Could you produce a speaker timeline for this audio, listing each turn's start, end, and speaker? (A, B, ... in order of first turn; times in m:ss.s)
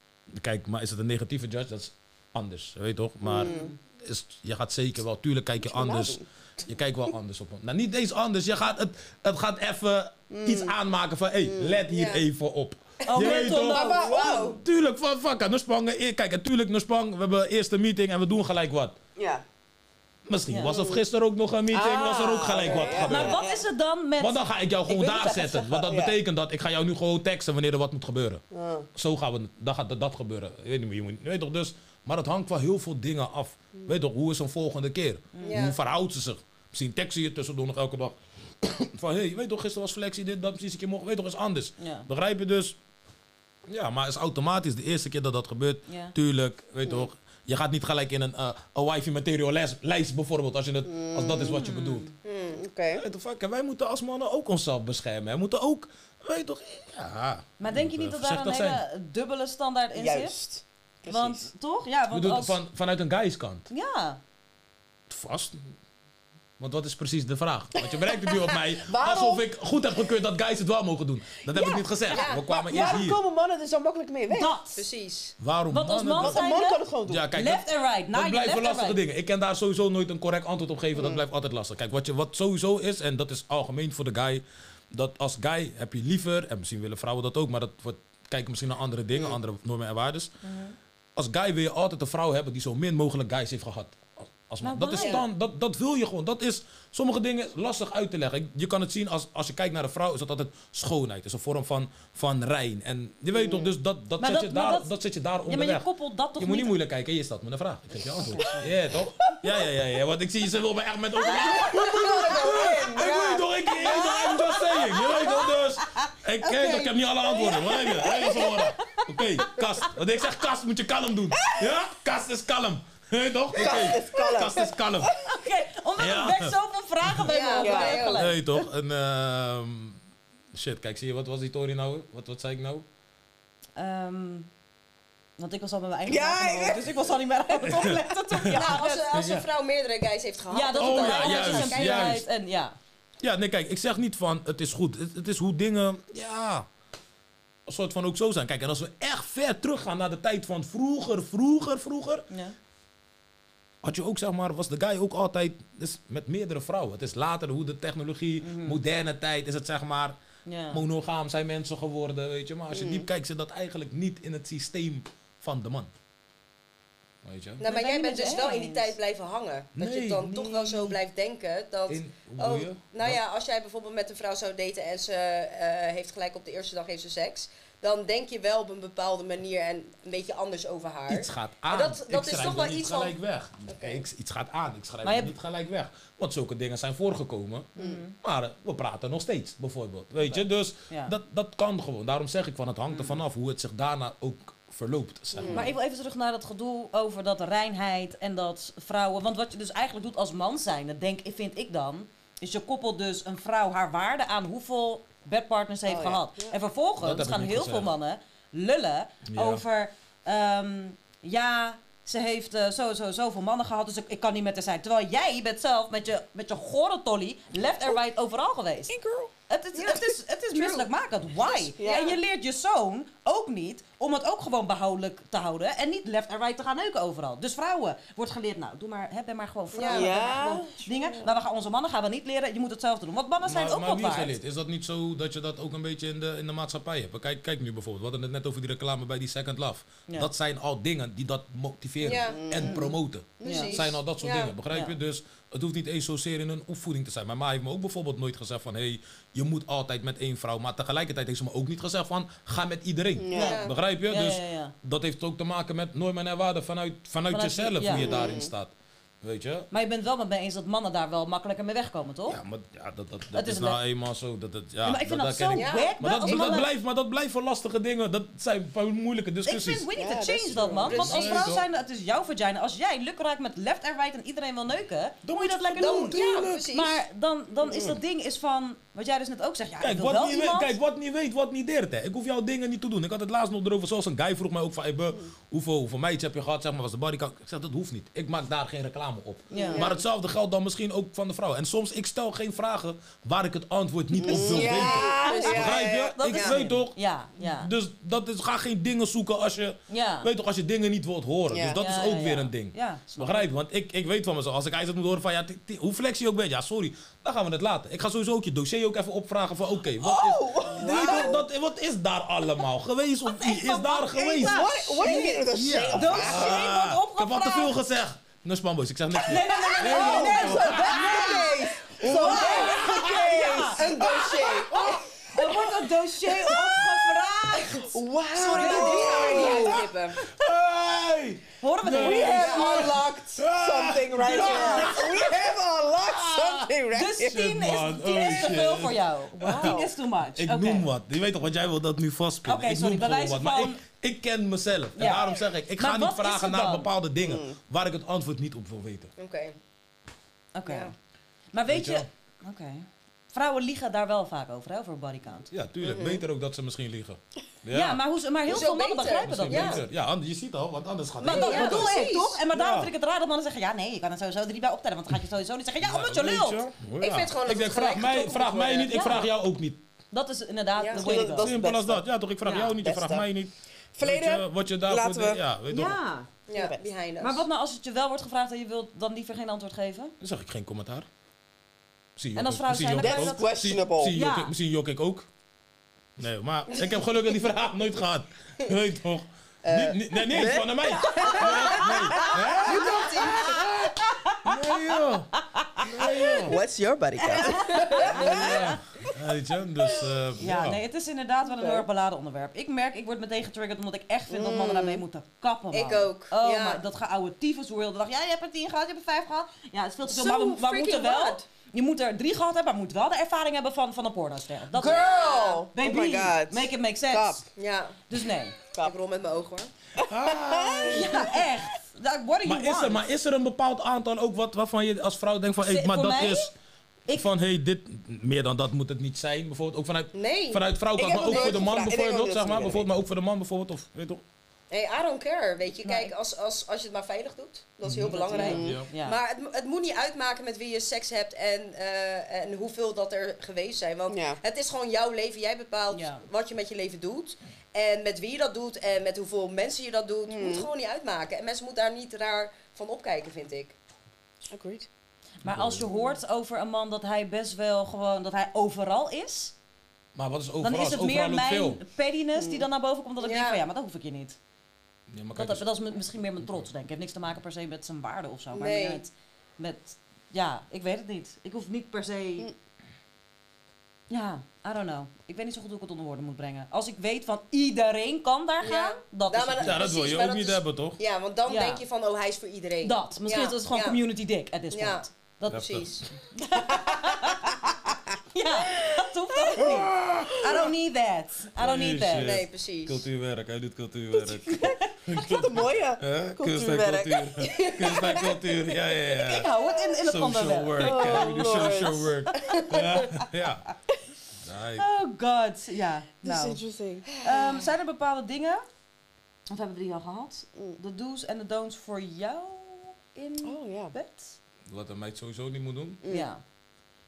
0:00.3-0:19.0 A
0:03.2-0:03.7 B
0:03.4-0:03.7 C
0:05.6-0:06.2 B
0:10.3-0:10.7 B
0:11.4-0:11.8 B
0:11.9-0:12.2 D
0:13.0-0:14.6 D
0:13.1-0:14.1 C
0:13.5-0:14.6 B
0:19.2-0:19.4 B
0:20.3-0:23.4 A
0:20.5-0:20.8 C
0:20.7-0:21.0 B
0:21.7-0:23.6 B
0:22.6-0:23.2 D
0:23.0-0:24.4 C
0:24.2-0:28.4 A
0:24.9-0:26.2 B
0:28.5-0:28.9 B
0:28.9-0:42.8 A
0:35.3-0:35.6 C
0:35.4-0:35.8 D
0:41.8-0:42.1 C
0:43.7-0:52.1 A
0:45.9-0:46.1 C
0:50.8-0:51.6 B
0:51.4-0:52.1 C
0:52.2-0:52.6 D
0:52.5-0:53.0 B
0:52.9-0:58.8 A
0:57.6-1:00.3 C
0:59.9-1:01.5 B
1:01.0-1:02.6 C
1:02.1-1:03.7 A
1:03.7-1:04.2 C
1:05.1-1:05.7 A
1:06.6-1:13.2 A
1:08.3-1:09.4 B
1:11.5-1:12.2 C
1:12.1-1:12.5 D
1:12.4-1:14.5 B
1:14.3-1:14.8 C
1:14.7-1:15.4 D
1:15.4-1:16.5 A
1:15.7-1:19.0 C
1:16.2-1:17.3 B
1:17.0-1:30.3 A
1:20.9-1:21.2 B
1:30.4-1:30.8 C
1:31.2-1:45.8 A
1:34.6-1:35.2 C
1:34.9-1:35.2 D
1:43.3-1:43.7 B
1:44.2-1:44.9 C
1:45.5-1:46.8 C
1:46.4-2:05.1 A
1:48.2-1:48.7 B
1:51.2-1:55.3 B
1:53.9-1:54.4 C
1:56.5-1:58.6 C
1:57.4-1:58.5 B
2:03.5-2:05.3 B
2:05.2-2:08.7 C
2:06.0-2:06.5 A
2:07.3-2:08.3 D
2:07.6-2:08.2 B
2:08.1-2:10.0 A
2:10.5-2:12.8 A
2:13.8-2:14.5 C
2:15.4-2:19.1 C
2:16.0-2:17.2 B
2:17.6-2:19.4 A
2:18.5-2:22.2 D
2:20.5-2:22.7 C
2:20.8-2:22.2 A
2:23.2-2:26.7 A
2:27.7-2:32.2 A
2:32.3-2:32.6 C
2:33.8-2:40.2 A
2:38.4-2:38.8 C
2:40.4-2:40.8 C
2:40.7-2:45.9 A
2:42.7-2:43.1 B
2:47.2-2:47.6 A
2:47.6-3:03.2 D
2:47.6-2:48.9 C
2:49.8-2:51.0 A
2:51.9-2:53.2 A
3:01.1-3:07.7 A
3:03.7-3:04.0 D
3:05.0-3:05.3 C
3:07.8-3:08.2 C
3:08.2-3:15.7 A
3:10.3-3:11.1 C
3:12.9-3:13.2 C
3:15.4-3:15.6 B
3:15.4-3:15.7 D
3:15.5-3:38.9 C
3:25.8-3:26.6 B
3:27.0-3:27.9 A
3:29.2-3:29.6 A
3:37.6-3:38.0 B
3:38.9-3:39.3 B
3:39.5-3:54.4 C
3:39.7-3:42.2 D
3:41.8-3:42.1 B
3:49.7-3:50.5 D
3:49.9-3:51.3 B
3:53.4-4:19.7 A
4:02.0-4:02.8 D
4:02.3-4:02.9 B
4:02.6-4:02.9 C
4:03.4-4:04.5 D
4:03.4-4:03.7 B
4:03.4-4:03.8 C
4:13.2-4:13.6 B
4:13.3-4:13.7 D
4:13.3-4:14.7 C
4:17.3-4:18.1 C
4:17.9-4:18.5 B
4:19.7-4:22.4 C
4:22.3-4:29.9 A
4:23.3-4:23.8 C
4:24.8-4:26.7 C
4:25.5-4:25.9 D
4:29.4-4:40.8 C
4:29.9-4:31.1 B
4:30.7-4:31.6 A
4:30.8-4:31.6 D
4:35.2-4:36.6 A
4:35.8-4:37.0 D
4:37.6-4:38.0 A
4:39.8-5:21.0 A
4:49.5-4:49.9 B
4:49.5-4:49.9 C
4:49.5-4:49.9 D
4:54.2-4:55.9 B
4:54.3-4:56.6 D
4:55.2-4:57.7 C
4:59.9-5:00.3 C
5:01.5-5:01.8 B
5:01.8-5:03.5 C
5:10.0-5:11.4 B
5:10.8-5:11.3 D
5:13.4-5:17.8 C
5:14.1-5:16.6 B
5:19.2-5:23.9 C
5:19.5-5:24.7 B
5:20.0-5:22.8 D
5:22.3-5:23.1 A
5:23.7-5:24.8 D
5:24.7-5:25.7 A
5:25.3-5:29.8 C
5:27.5-5:27.8 D
5:27.8-5:29.8 B
5:28.3-5:30.2 D
5:29.3-5:35.4 A
5:31.6-5:32.9 C
5:32.0-5:37.5 B
5:32.2-5:32.9 D
5:34.2-5:35.1 C
5:36.0-5:36.7 A
5:36.9-5:40.9 C
5:37.2-5:39.8 A
5:39.5-5:39.8 B
5:40.4-5:49.1 A
5:42.4-5:43.8 C
5:45.0-5:46.9 C
5:47.2-5:47.6 B
5:49.2-5:49.6 D
5:50.5-5:50.9 C
5:50.6-5:50.9 D
5:51.5-5:55.5 C
5:51.7-5:52.1 A
5:55.5-5:58.0 A
5:55.8-5:56.2 D
5:57.7-5:59.8 C
5:58.5-5:59.8 D
5:59.0-6:02.0 A
6:01.2-6:02.4 D
6:01.2-6:06.7 C
6:02.5-6:02.9 A
6:05.8-6:09.8 A
6:07.0-6:09.1 D
6:08.9-6:09.3 C
6:10.1-6:11.5 C
6:10.8-6:11.1 D
6:10.9-6:12.0 B
6:11.1-6:16.0 A
6:12.4-6:12.8 C
6:12.6-6:13.3 B
6:13.9-6:15.4 B
6:15.7-6:16.3 C
6:16.5-6:17.4 D
6:16.5-6:16.8 B
6:17.2-6:20.1 C
6:20.2-6:21.1 A
6:22.2-6:25.3 A
6:22.4-6:23.6 C
6:23.0-6:24.2 B
6:24.1-6:24.5 C
6:26.2-6:33.9 A
6:29.6-6:30.5 D
6:30.3-6:32.6 B
6:31.1-6:33.7 D
6:34.4-6:36.6 A
6:36.4-6:38.6 B
6:37.3-6:38.8 C
6:37.5-6:38.6 D
6:38.0-6:40.8 A
6:40.4-6:55.1 C
6:41.5-6:41.8 B
6:44.3-6:45.0 B
6:45.7-6:46.8 D
6:50.0-6:51.4 D
6:54.7-6:57.4 B
6:54.8-6:55.6 D
6:55.7-6:57.4 C
6:57.6-6:58.0 D
6:58.1-6:58.6 C
6:58.8-6:59.7 D
7:00.0-7:01.5 B
7:00.0-7:01.4 A
7:00.9-7:03.0 C
7:02.4-7:06.5 A
7:05.6-7:06.5 C
7:07.1-7:14.2 A
7:10.1-7:11.7 D
7:11.0-7:12.9 B
7:14.7-7:33.7 D
7:15.8-7:16.1 C
7:17.8-7:18.9 A
7:18.0-7:19.2 C
7:18.3-7:18.8 B
7:24.1-7:24.4 B
7:25.9-7:26.2 C
7:30.3-7:30.7 B
7:34.5-7:34.9 B
7:35.4-7:39.5 C
7:35.4-7:35.9 A
7:40.1-7:41.8 A
7:40.6-7:44.4 C
7:42.4-7:42.6 B
7:43.2-7:43.6 D
7:45.1-7:45.7 A
7:45.4-7:52.5 C
7:48.5-7:49.0 D
7:54.1-7:59.8 C
7:58.6-8:04.0 D
7:59.6-8:01.0 A
8:01.5-8:01.8 C
8:02.8-8:05.6 C
8:04.7-8:06.0 D
8:05.5-8:06.1 A
8:06.3-8:07.7 C
8:08.3-8:12.4 C
8:09.6-8:10.4 A
8:11.6-8:23.7 A
8:12.1-8:13.0 D
8:14.5-8:14.9 C
8:14.5-8:17.4 B
8:17.4-8:18.4 D
8:19.2-8:21.7 C
8:20.8-8:22.1 B
8:22.4-8:23.0 D
8:24.4-8:24.8 A
8:24.8-8:26.6 C
8:26.2-8:27.1 B
8:27.1-8:27.6 D
8:27.2-8:28.6 C
8:29.5-8:34.4 C
8:33.4-8:33.9 B
8:34.7-8:36.0 A
8:36.0-8:36.3 B
8:36.1-8:36.4 C